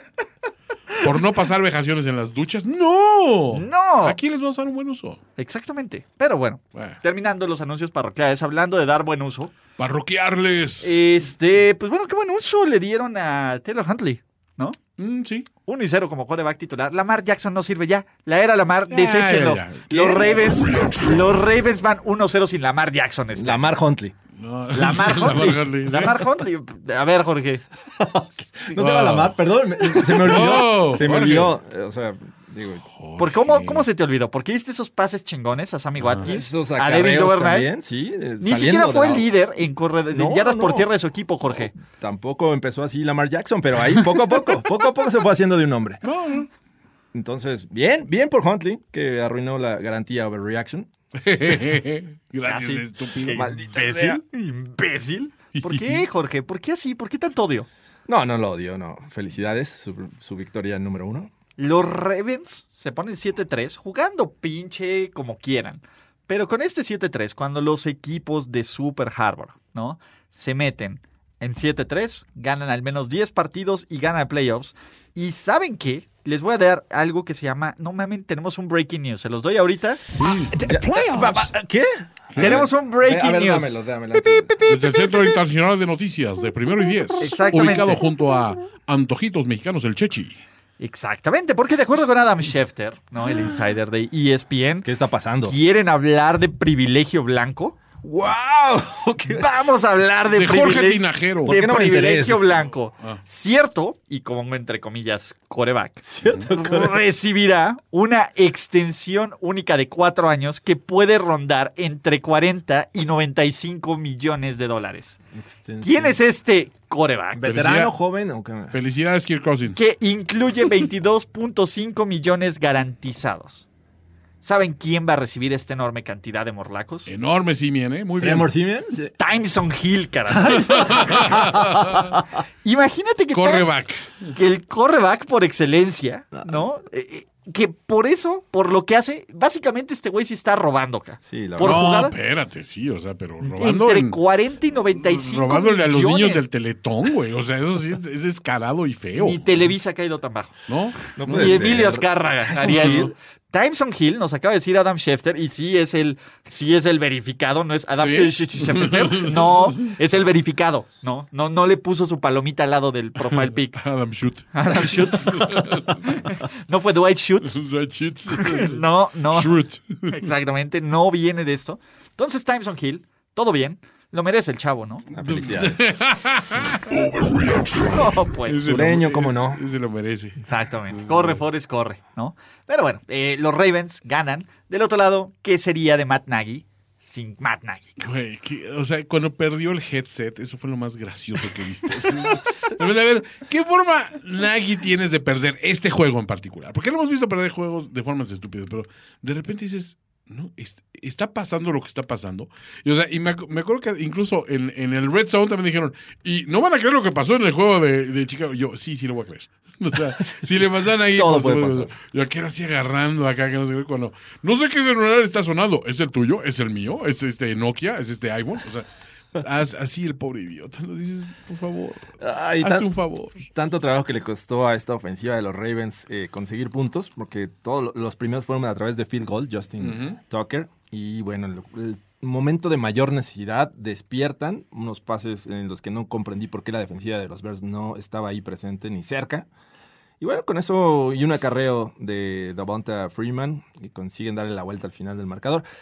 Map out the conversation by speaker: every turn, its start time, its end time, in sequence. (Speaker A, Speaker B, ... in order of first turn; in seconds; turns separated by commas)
Speaker A: 1.0-5.2, Speaker B: 3.5-4.2, Speaker B: 5.4-9.6, Speaker A: 6.8-7.0, Speaker A: 9.8-11.0, Speaker B: 10.8-14.8, Speaker A: 15.0-15.5, Speaker B: 15.7-23.7, Speaker A: 18.9-20.4, Speaker C: 23.3-24.1, Speaker A: 24.4-26.2, Speaker B: 24.7-27.6, Speaker C: 28.0-32.8, Speaker B: 28.5-28.8, Speaker A: 28.8-29.4, Speaker A: 29.9-31.6, Speaker A: 32.9-33.9, Speaker B: 33.2-37.7, Speaker A: 36.0-36.3, Speaker C: 36.2-39.3, Speaker B: 38.4-41.7, Speaker C: 40.1-40.9, Speaker C: 41.5-46.0, Speaker A: 46.0-46.5, Speaker C: 47.1-50.9, Speaker A: 51.2-53.5, Speaker B: 52.4-57.7, Speaker C: 53.3-54.2, Speaker A: 55.6-56.0, Speaker C: 58.1-61.3, Speaker B: 61.6-80.1, Speaker A: 80.2-80.5, Speaker C: 80.6-84.5, Speaker B: 80.9-81.2, Speaker A: 82.3-82.7, Speaker B: 82.4-85.4, Speaker A: 84.7-90.4, Speaker B: 87.2-88.0, Speaker B: 90.8-94.9, Speaker C: 94.8-95.6, Speaker B: 95.5-97.8, Speaker C: 98.0-99.5, Speaker B: 99.3-115.2, Speaker A: 100.3-101.5, Speaker C: 101.5-102.7, Speaker C: 106.1-107.0, Speaker C: 115.3-116.2, Speaker B: 115.8-117.5, Speaker C: 117.3-118.8, Speaker A: 117.4-117.9, Speaker A: 118.7-119.8, Speaker B: 119.8-123.7, Speaker B: 124.4-127.1, Speaker A: 127.1-128.5, Speaker C: 128.2-129.2, Speaker B: 129.2-131.7, Speaker A: 130.5-132.2, Speaker B: 132.6-133.7, Speaker A: 133.3-134.3, Speaker B: 134.3-142.2, Speaker C: 136.3-136.7, Speaker C: 141.2-142.0, Speaker A: 141.6-144.2, Speaker B: 143.4-146.4, Speaker A: 144.9-149.7, Speaker B: 149.2-150.6, Speaker A: 150.7-151.7, Speaker C: 151.2-153.1, Speaker B: 151.3-163.8, Speaker A: 152.7-153.1, Speaker A: 158.0-160.0, Speaker A: 163.3-166.1, Speaker B: 164.5-167.6, Speaker A: 167.4-170.2, Speaker B: 168.3-169.6, Speaker B: 170.1-175.1, Speaker C: 175.1-175.8, Speaker A: 175.2-177.8, Speaker B: 177.9-178.6, Speaker A: 178.4-181.4, Speaker C: 178.6-179.6, Speaker B: 180.4-188.0, Speaker A: 188.0-222.1, Speaker B: 211.2-211.9, Speaker C: 222.2-222.9, Speaker A: 222.6-223.5, Speaker C: 223.5-239.5, Speaker A: 229.8-230.2, Speaker C: 240.2-245.6